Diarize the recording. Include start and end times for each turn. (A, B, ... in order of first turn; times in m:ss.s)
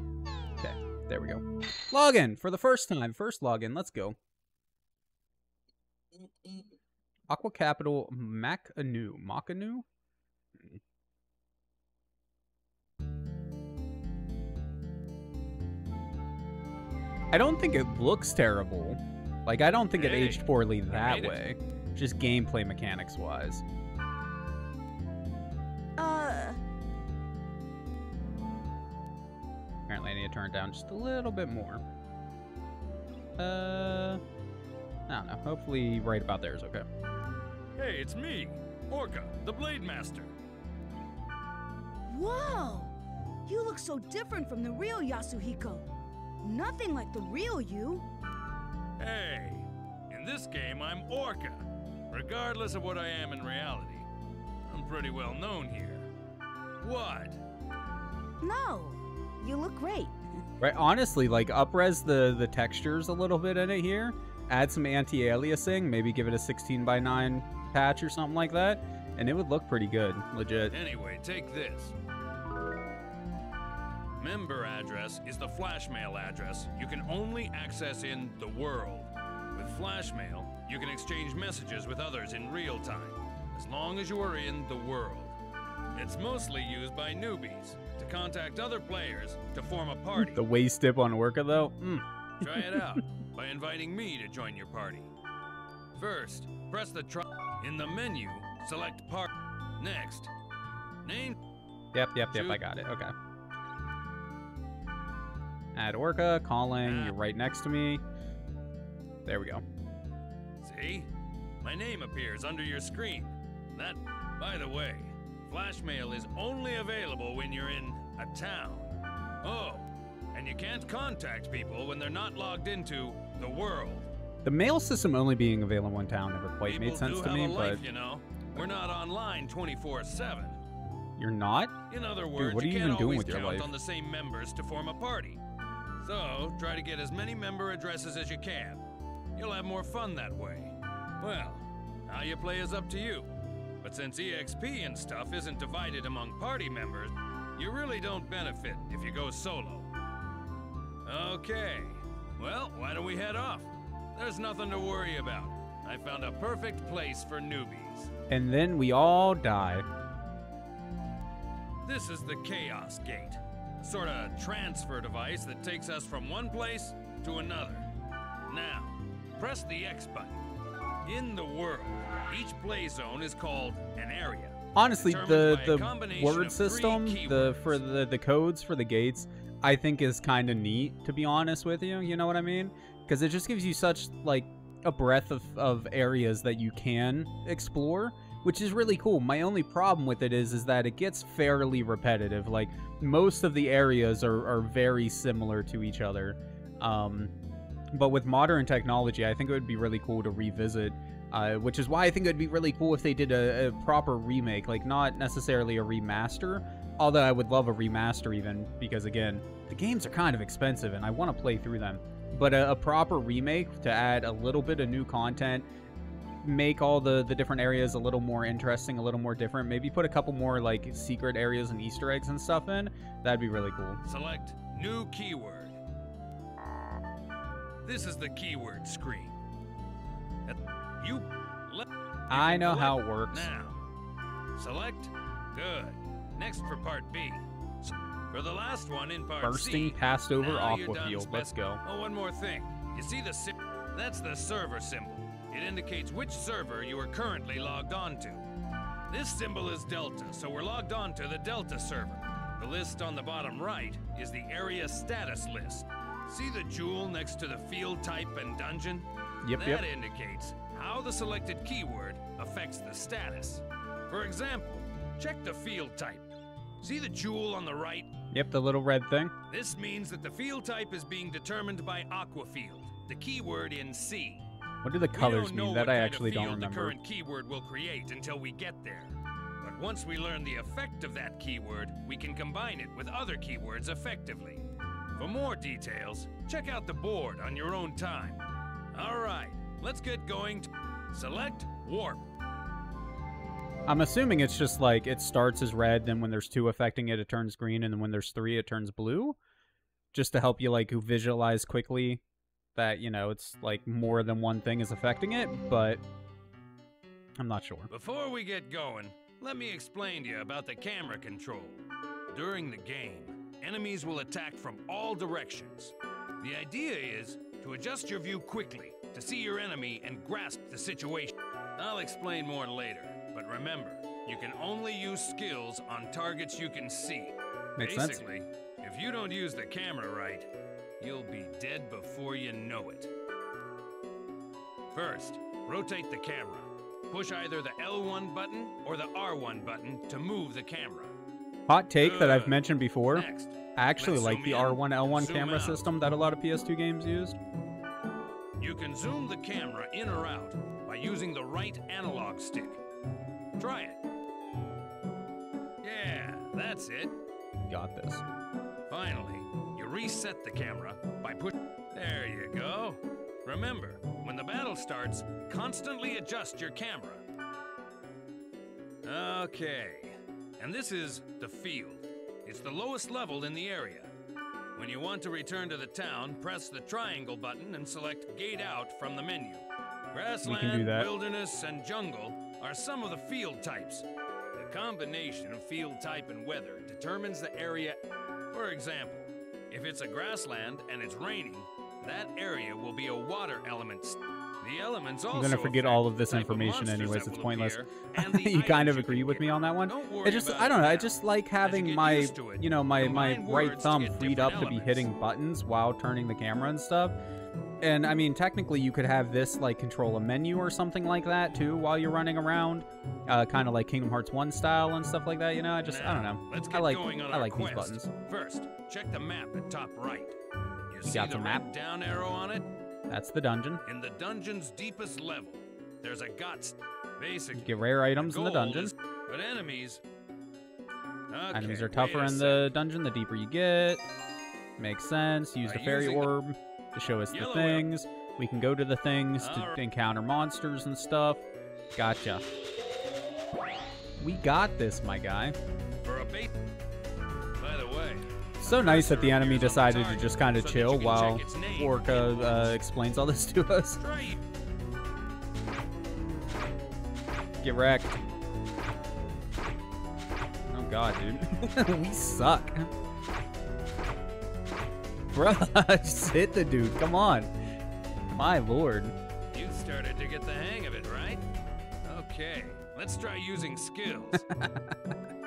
0:00.6-0:04.2 A
0:07.3-0:09.8 A
0:17.3-0:23.6 A
0:20.0-0:21.4 B
0:26.0-0:26.6 C
0:29.9-0:31.8 A
0:33.4-0:34.2 A
0:35.1-0:36.9 A
0:37.8-0:40.4 B
0:42.1-0:45.9 C
0:46.4-0:48.1 C
0:49.0-0:54.1 B
0:54.7-0:56.1 B
0:56.8-0:57.4 B
0:58.4-1:00.2 C
1:00.6-1:10.8 A
1:10.7-1:11.9 B
1:14.2-1:25.4 B
1:25.9-1:30.4 B
1:30.3-1:33.0 A
1:32.4-1:35.1 B
1:36.0-1:40.3 B
1:41.0-1:41.4 B
1:41.9-1:43.1 A
1:42.3-1:42.6 B
1:45.8-1:48.0 A
1:46.8-1:47.1 B
1:49.3-1:49.6 A
1:50.6-1:51.1 B
1:51.6-2:04.1 B
2:04.4-2:07.8 A
2:06.7-2:10.6 B
2:11.2-2:11.8 A
2:11.9-2:15.4 B
2:12.4-2:13.7 A
2:16.0-2:18.8 B
2:19.4-2:29.9 B
2:31.0-2:38.1 B
2:38.3-2:39.9 A
2:41.8-2:47.9 B
2:48.5-2:50.4 B
2:51.0-2:57.8 B
2:54.8-3:17.3 A
3:17.9-3:35.7 A
3:36.4-3:44.0 A
3:44.0-3:45.8 B
3:47.8-3:49.4 B
3:50.5-3:53.8 B
3:52.3-3:53.5 A
3:54.6-4:08.5 B
3:59.4-4:01.8 A
4:09.1-4:26.3 B
4:19.4-4:19.8 A
4:26.8-4:28.1 B
4:28.3-4:29.3 A
4:29.5-4:34.4 B
4:34.8-4:37.0 A
4:35.1-4:44.6 B
4:45.2-4:52.2 B
4:53.9-4:59.4 A
5:00.1-5:02.2 A
5:02.8-5:06.0 A
5:07.4-5:07.9 A
5:07.9-5:30.5 B
5:27.8-5:28.2 A
5:31.0-5:33.1 B
5:34.9-5:41.2 B
5:41.7-5:43.2 A
5:42.0-5:45.9 B
5:43.8-5:47.4 A
5:48.6-5:52.8 B
5:53.6-5:54.0 B
5:55.8-5:57.1 B
5:57.7-5:58.2 A
5:58.9-6:07.2 B
6:09.0-6:14.1 B
6:14.8-6:28.0 B
6:20.4-6:21.1 A
6:28.5-6:45.1 B
6:35.3-6:47.2 A
6:47.8-6:58.1 A
6:55.8-7:00.4 B
7:00.9-7:02.7 B
7:01.0-7:01.7 A
7:03.1-7:03.8 A
7:03.8-7:10.0 B
7:07.5-7:08.9 A
7:11.3-7:12.7 B
7:11.5-7:14.0 A
7:14.8-7:21.4 A
7:15.6-7:16.4 B
7:17.3-7:17.9 B
7:19.4-7:19.8 B
7:22.0-7:22.4 A
7:24.2-7:25.6 A
7:26.0-7:26.5 B
7:27.6-7:32.6 B
7:28.6-7:34.0 A
7:34.0-7:34.4 B
7:37.6-7:38.2 A
7:40.7-7:42.9 A
7:45.3-7:47.5 A
7:48.4-7:49.1 A
7:49.5-7:51.4 B
7:52.0-7:54.4 B
7:54.5-7:55.1 A